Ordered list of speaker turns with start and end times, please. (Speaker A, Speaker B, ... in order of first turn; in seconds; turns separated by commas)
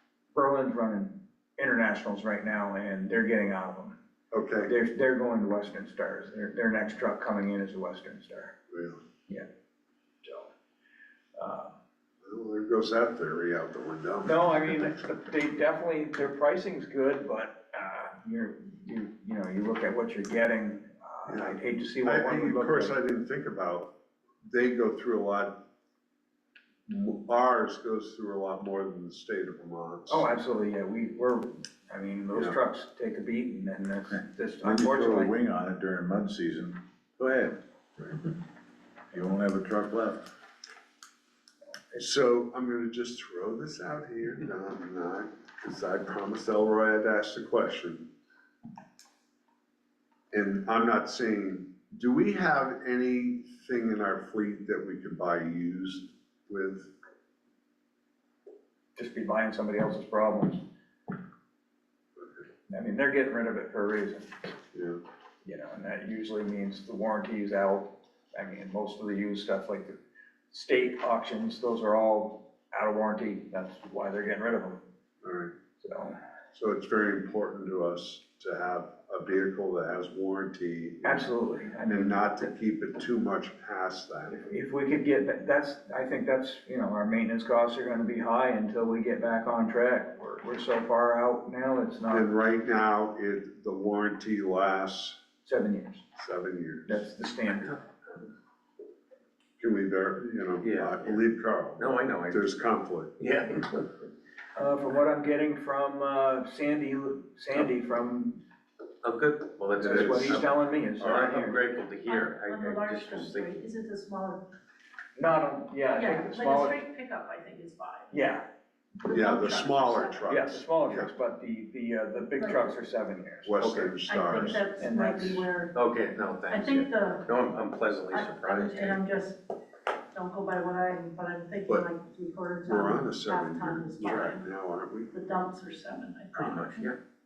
Speaker A: 0.3-4.0, Speaker B: 4.3-4.7, Speaker A: 4.7-8.5, Speaker B: 8.7-9.0, Speaker A: 10.2-10.5, Speaker A: 11.3-11.7, Speaker B: 12.2-14.9, Speaker A: 14.2-22.9, Speaker B: 21.3-23.9, Speaker B: 24.5-25.6, Speaker B: 26.9-30.3, Speaker A: 30.1-35.3, Speaker C: 34.6-37.6, Speaker C: 39.1-40.3, Speaker B: 41.9-48.1, Speaker B: 50.3-56.9, Speaker A: 59.0-60.6, Speaker A: 62.7-64.3, Speaker B: 64.7-65.0, Speaker A: 65.4-70.0, Speaker A: 70.5-74.8, Speaker B: 75.2-75.5, Speaker A: 75.8-76.2, Speaker B: 76.5-81.3, Speaker A: 81.0-82.5, Speaker B: 81.9-84.4, Speaker A: 84.3-92.3, Speaker B: 92.1-95.2, Speaker A: 95.4-96.0, Speaker B: 96.2-97.1, Speaker A: 96.9-97.8, Speaker B: 99.6-103.1, Speaker D: 100.6-101.2, Speaker D: 101.8-102.5, Speaker D: 103.2-103.8, Speaker A: 104.5-108.4, Speaker D: 109.0-113.6, Speaker B: 109.8-110.5, Speaker A: 109.8-111.6, Speaker B: 111.0-111.3, Speaker E: 112.0-114.5, Speaker A: 115.2-116.8, Speaker E: 115.9-118.1, Speaker A: 118.1-118.4, Speaker E: 119.0-120.2, Speaker B: 119.1-121.1, Speaker A: 120.3-125.4, Speaker E: 122.4-122.7, Speaker B: 123.4-124.7, Speaker E: 124.0-125.8, Speaker D: 125.7-129.0, Speaker E: 126.5-127.2, Speaker E: 128.1-129.5, Speaker E: 130.1-134.4, Speaker B: 132.6-135.1, Speaker E: 135.1-136.6, Speaker D: 136.3-137.0